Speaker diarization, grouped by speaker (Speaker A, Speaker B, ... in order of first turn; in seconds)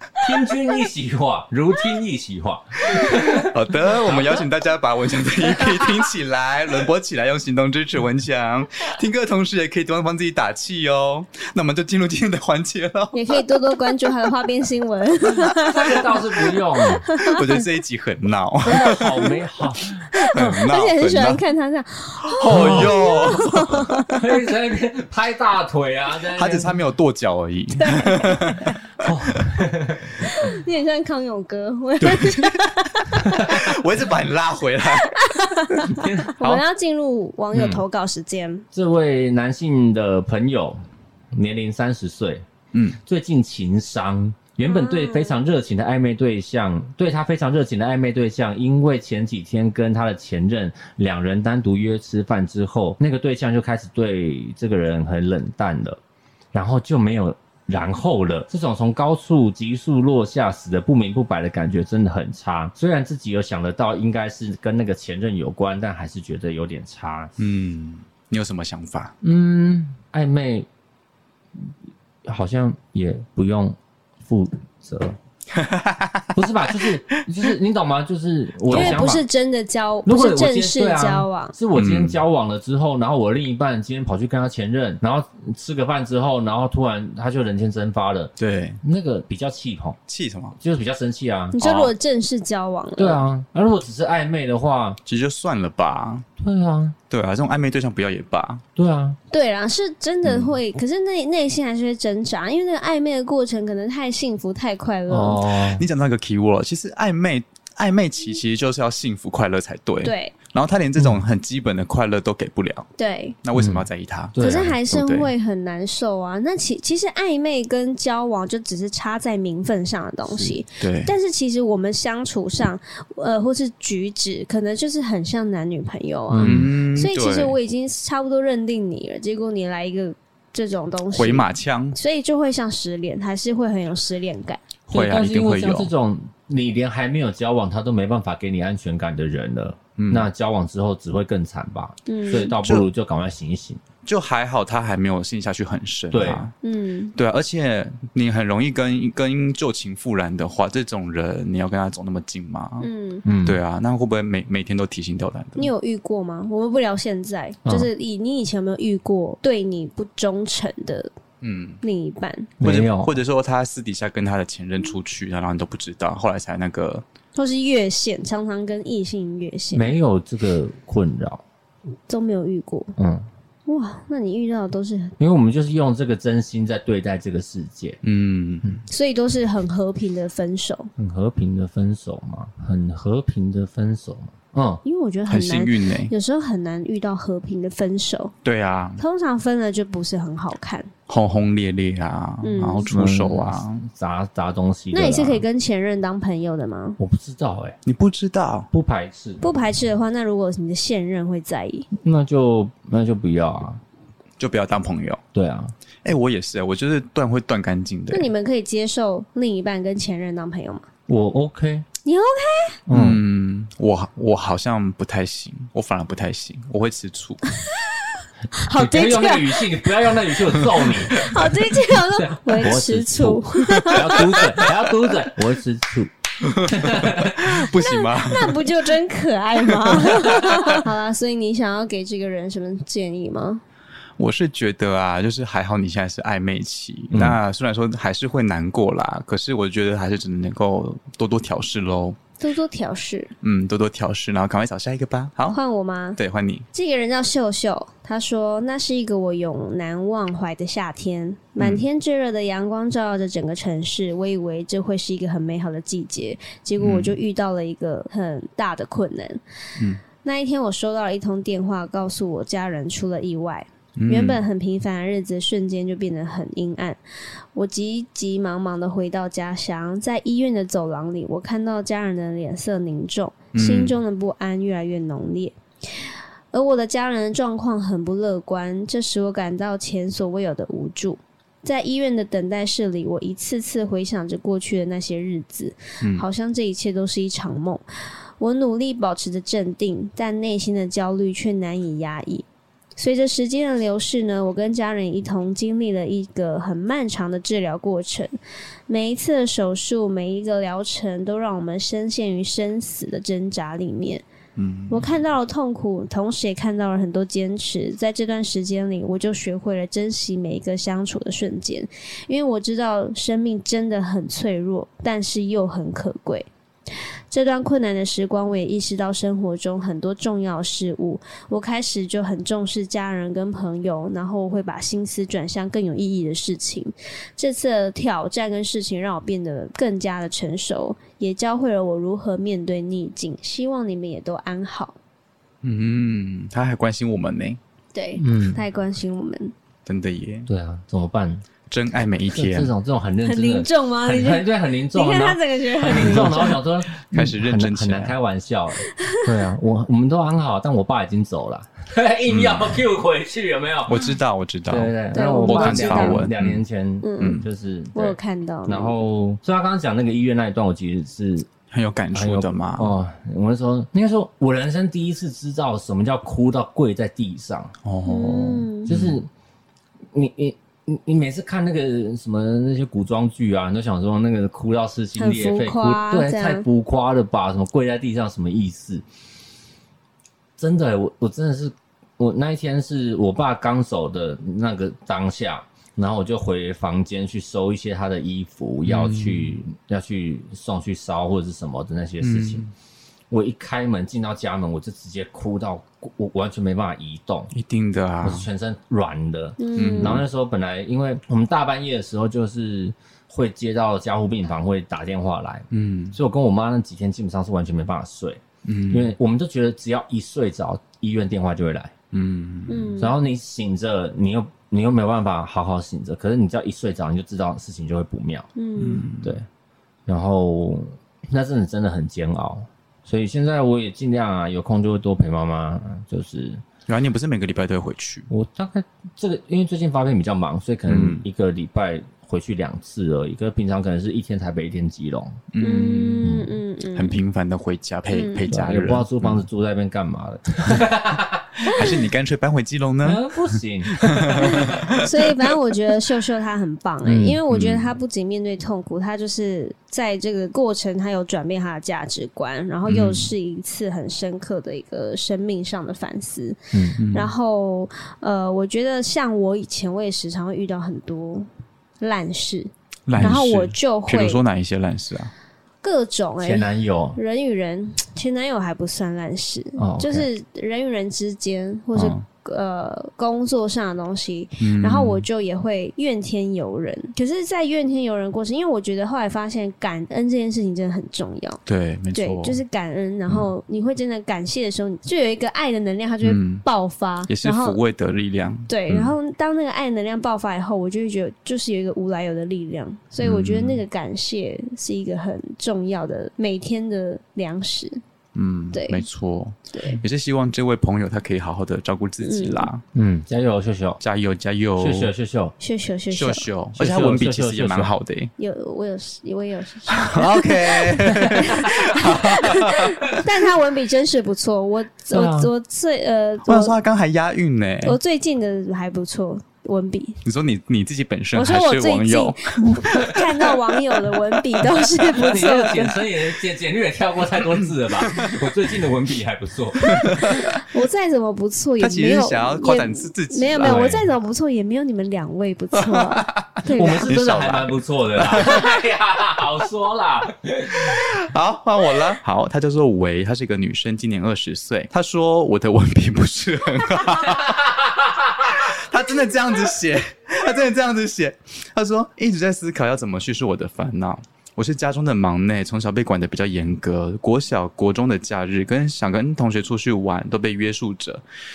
Speaker A: 0.2-4.5, 5.5-6.1, 15.6-17.1, 18.6-20.5, 22.5-23.1, 24.1-26.7, 29.0-30.3, 33.3-33.5, 35.9-36.3, 38.7-40.8, 41.3-42.5, 43.0-56.0, 56.5-67.3, 69.2-70.7, 72.2-75.2, 76.3-79.2, 80.1-90.0, 90.6-91.9, 93.0-95.0, 96.4-97.0, 98.8-99.2, 105.1-105.8, 111.0-111.2, 113.6-114.8, 120.2-120.6, 126.3-126.7, 134.9-143.8, 146.1-146.4, 153.2-153.6, 157.7-157.9, 162.6-163.2, 169.7-171.4, 173.0-173.2, 175.2-178.0, 181.0-184.8, 192.9-195.4, 197.0-197.8, 198.7-199.4, 202.0-203.8, 205.3-205.7, 211.1-211.9, 212.9-213.2, 218.7-227.4, 237.1-237.4, 338.2-338.6, 340.5-341.5, 342.3-354.0, 354.7-361.5, 362.1-369.3, 370.1-379.0, 380.6-392.6, 393.3-397.5, 398.2-411.9, 413.0-418.5, 420.1-426.6, 428.3-435.4, 436.2-436.5, 438.5-441.4, 443.0-445.0, 447.0-447.4, 456.7-457.0, 463.2-463.4, 466.4-467.2, 469.8-470.3, 502.9-504.0, 504.8-505.6, 506.8-507.9, 515.1-515.5, 525.1-530.4, 533.6-534.1, 536.7-541.0, 547.2-548.6
Speaker B: 2.9-14.3, 17.0-19.3, 20.3-21.4, 22.2-24.1, 26.4-29.5, 32.0-36.6, 37.5-37.8, 42.7-43.0, 67.4-69.1, 75.5-77.2, 78.7-79.1, 81.8-82.2, 88.4-88.8, 90.1-90.6, 95.1-96.3, 97.1-98.6, 100.3-100.5, 105.7-112.9, 113.4-115.3, 120.8-121.1, 126.4-127.6, 131.1-132.0, 134.9-135.9, 140.0-140.3, 144.1-146.5, 147.2-152.9, 153.4-155.7, 161.4-161.8, 162.6-167.1, 178.0-178.7, 185.3-186.1, 188.4-189.0, 191.1-193.8, 197.8-198.7, 204.4-205.2, 206.0-208.3, 212.9-217.4, 223.7-224.7, 226.4-229.0, 229.6-230.9, 234.2-242.2, 243.4-245.6, 246.2-246.7, 251.6-251.8, 256.8-257.2, 259.8-260.0, 264.0-264.4, 273.5-274.0, 286.0-286.3, 304.6-305.2, 335.6-337.6, 339.9-340.5, 341.7-342.7, 346.0-346.3, 347.0-348.1, 352.3-352.8, 353.9-356.6, 357.2-357.5, 361.7-362.9, 367.9-369.2, 388.9-389.5, 392.2-392.7, 397.5-398.5, 399.8-400.2, 405.7-406.2, 408.6-409.1, 412.1-413.0, 418.8-419.4, 426.9-428.3, 430.9-431.2, 435.5-436.4, 436.9-439.4, 441.6-445.6, 447.5-448.0, 452.9-453.3, 457.0-457.3, 463.1-465.3, 471.9-472.2, 474.6-475.3, 481.7-482.6, 486.2-486.6, 487.3-489.2, 493.2-493.8, 498.3-502.8, 504.0-505.1, 506.1-508.3, 509.9-513.2, 516.5-518.0, 520.2-524.7, 527.4-528.6, 529.8-530.6, 531.8-534.0, 535.7-538.8, 540.9-547.7, 548.4-561.2
Speaker C: 13.1-17.6, 20.1-24.2, 27.8-28.8, 30.2-33.7, 34.9-38.7, 44.6-45.4, 78.7-81.5, 91.5-93.2, 99.3-105.4, 110.0-110.3, 113.0-113.4, 114.4-134.6, 142.1-142.6, 146.6-147.2, 152.8-153.2, 155.6-161.1, 161.8-162.6, 167.3-169.9, 172.1-172.9, 173.7-175.2, 178.9-180.9, 184.8-188.3, 189.0-190.9, 192.4-192.9, 194.9-197.0, 199.4-201.9, 208.1-210.9, 212.1-212.8, 217.7-224.7, 227.4-233.6, 242.4-243.3, 245.5-246.2, 246.7-259.4, 260.2-267.0, 267.5-287.8, 288.4-292.5, 293.0-298.3, 298.9-304.2, 304.9-316.5, 317.3-335.0, 337.9-339.5, 343.2-346.6, 348.9-349.3, 355.1-356.3, 357.0-358.9, 368.1-368.9, 375.2-376.6, 399.6-400.2, 412.7-413.2, 418.6-419.1, 435.6-437.2, 438.1-438.5, 441.6-442.0, 444.4-456.6, 457.1-461.5, 462.0-464.4, 465.8-481.6, 482.1-487.8, 488.7-498.0, 498.7-499.1, 499.7-500.0, 502.2-502.7, 505.6-506.5, 508.4-516.8, 517.8-520.2, 521.4-526.1, 529.9-537.1